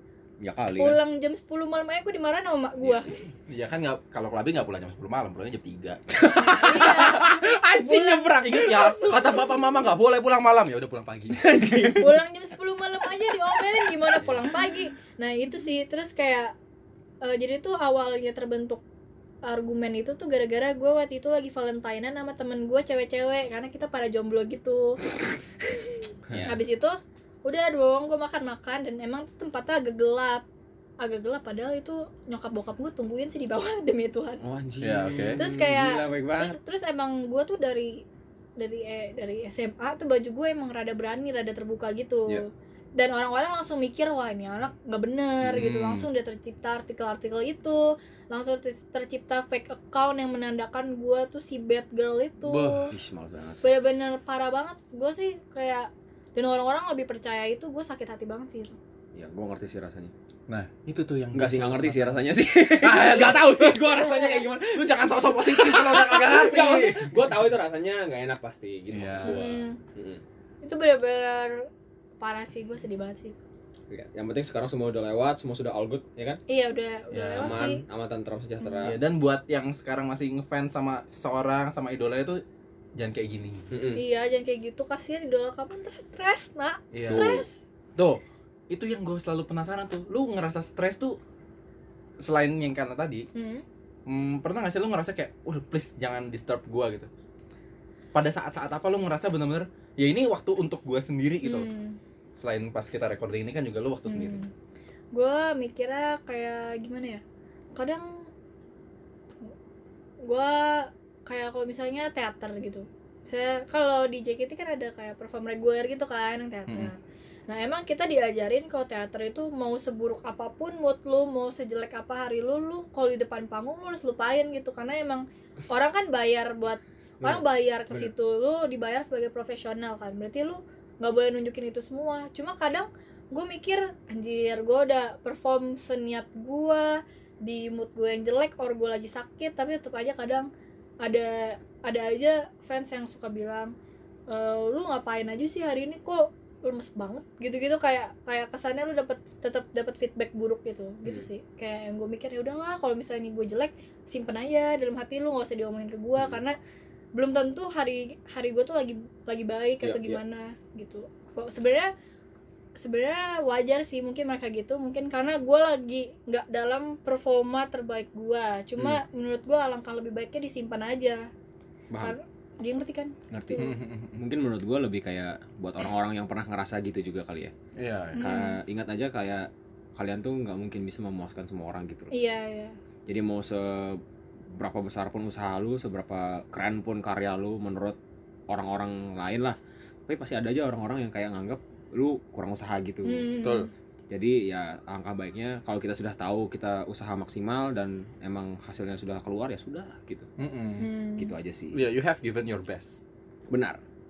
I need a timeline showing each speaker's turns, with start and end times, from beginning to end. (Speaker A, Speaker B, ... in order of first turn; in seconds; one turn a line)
Speaker A: 0.4-1.0
Speaker B: 0.8-3.2
Speaker C: 3.5-7.0
Speaker A: 6.1-9.3
Speaker B: 6.3-8.8
Speaker C: 8.4-11.9
Speaker A: 11.3-12.2
Speaker B: 12.0-16.5
Speaker A: 14.0-14.2
Speaker C: 14.2-14.5
Speaker B: 17.2-18.8
Speaker B: 19.4-25.0
Speaker B: 25.7-30.4
Speaker A: 26.3-26.6
Speaker B: 31.0-34.4
Speaker A: 34.4-36.6
Speaker C: 34.8-35.4
Speaker B: 35.4-38.0
Speaker B: 38.6-52.9
Speaker C: 45.4-46.1
Speaker C: 52.4-52.9
Speaker A: 52.9-53.6
Speaker B: 53.6-58.8
Speaker A: 59.1-60.1
Speaker C: 60.5-63.9
Speaker A: 61.3-70.2
Speaker B: 64.0-64.4
Speaker C: 64.7-67.3
Speaker C: 68.9-69.5
Speaker B: 69.2-69.8
Speaker B: 70.6-71.7
Speaker B: 72.2-73.4
Speaker A: 73.9-76.4
Speaker B: 76.5-77.8
Speaker C: 77.1-77.7
Speaker A: 77.4-79.0
Speaker B: 78.6-78.9
Speaker C: 78.8-82.4
Speaker C: 83.0-83.7
Speaker A: 83.7-84.0
Speaker B: 83.9-87.6
Speaker C: 86.9-87.4
Speaker A: 87.0-87.4
Speaker C: 88.0-91.2
Speaker C: 92.2-93.2
Speaker B: 93.3-93.6
Speaker C: 94.1-97.1
Speaker C: 98.1-101.7
Speaker B: 101.4-102.0
Speaker C: 102.3-104.4
Speaker B: 104.1-104.5
Speaker B: 105.1-107.2
Speaker B: 107.8-108.2
Speaker B: 110.2-140.5
Speaker C: 116.7-116.9
Speaker A: 127.2-128.1
Speaker B: 141.0-143.7
Speaker B: 144.3-156.5
Speaker B: 157.1-161.9
Speaker A: 159.8-160.2
Speaker B: 162.8-171.2
Speaker B: 172.0-173.8
Speaker A: 173.3-177.5
Speaker C: 173.6-174.2
Speaker C: 177.8-178.3
Speaker B: 178.2-178.6
Speaker A: 178.2-182.1
Speaker B: 182.1-182.8
Speaker A: 183.1-184.0
Speaker A: 184.6-188.0
Speaker A: 188.5-193.3
Speaker B: 193.0-193.7
Speaker C: 193.4-193.7
Speaker A: 194.1-200.3
Speaker C: 200.4-200.9
Speaker B: 200.8-201.3
Speaker A: 201.2-201.8
Speaker C: 201.7-203.0
Speaker A: 203.5-203.8